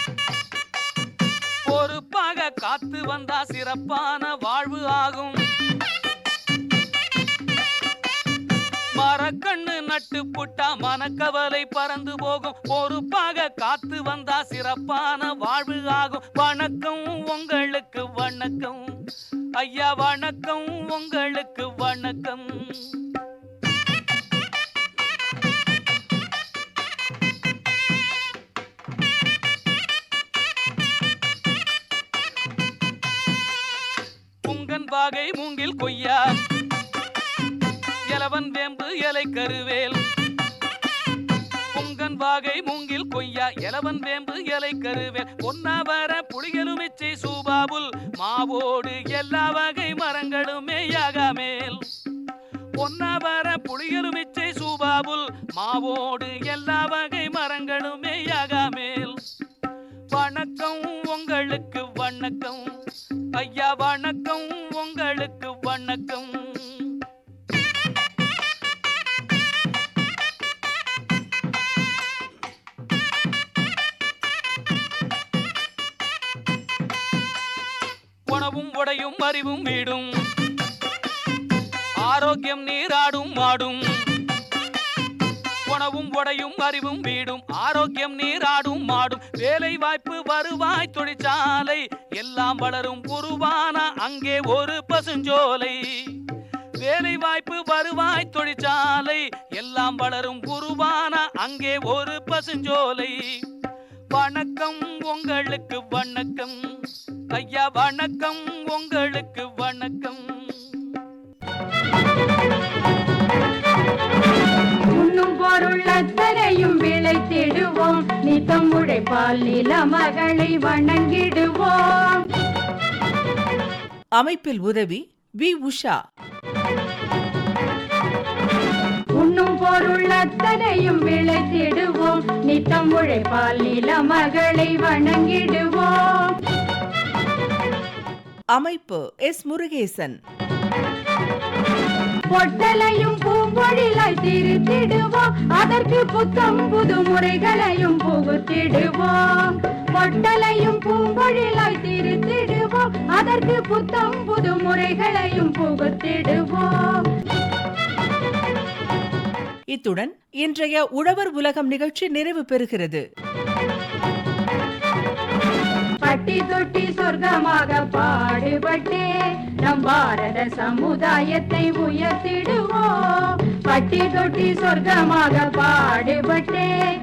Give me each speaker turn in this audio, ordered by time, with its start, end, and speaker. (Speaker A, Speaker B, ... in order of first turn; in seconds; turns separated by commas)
Speaker A: 1.6-5.4, Speaker A: 8.9-18.9, Speaker A: 19.6-23.1, Speaker A: 34.5-36.4, Speaker A: 38.1-40.0, Speaker A: 41.7-51.9, Speaker A: 52.8-59.2, Speaker A: 60.1-62.7, Speaker A: 63.4-67.0, Speaker A: 78.3-80.1, Speaker A: 82.0-83.8, Speaker A: 85.7-96.2, Speaker A: 96.8-103.2, Speaker A: 104.1-106.6, Speaker A: 107.3-110.8, Speaker B: 114.9-122.3, Speaker C: 124.2-126.0, Speaker B: 129.2-136.4, Speaker C: 138.6-140.2, Speaker B: 142.3-157.1, Speaker C: 159.7-163.0, Speaker B: 166.0-169.1, Speaker B: 169.6-176.7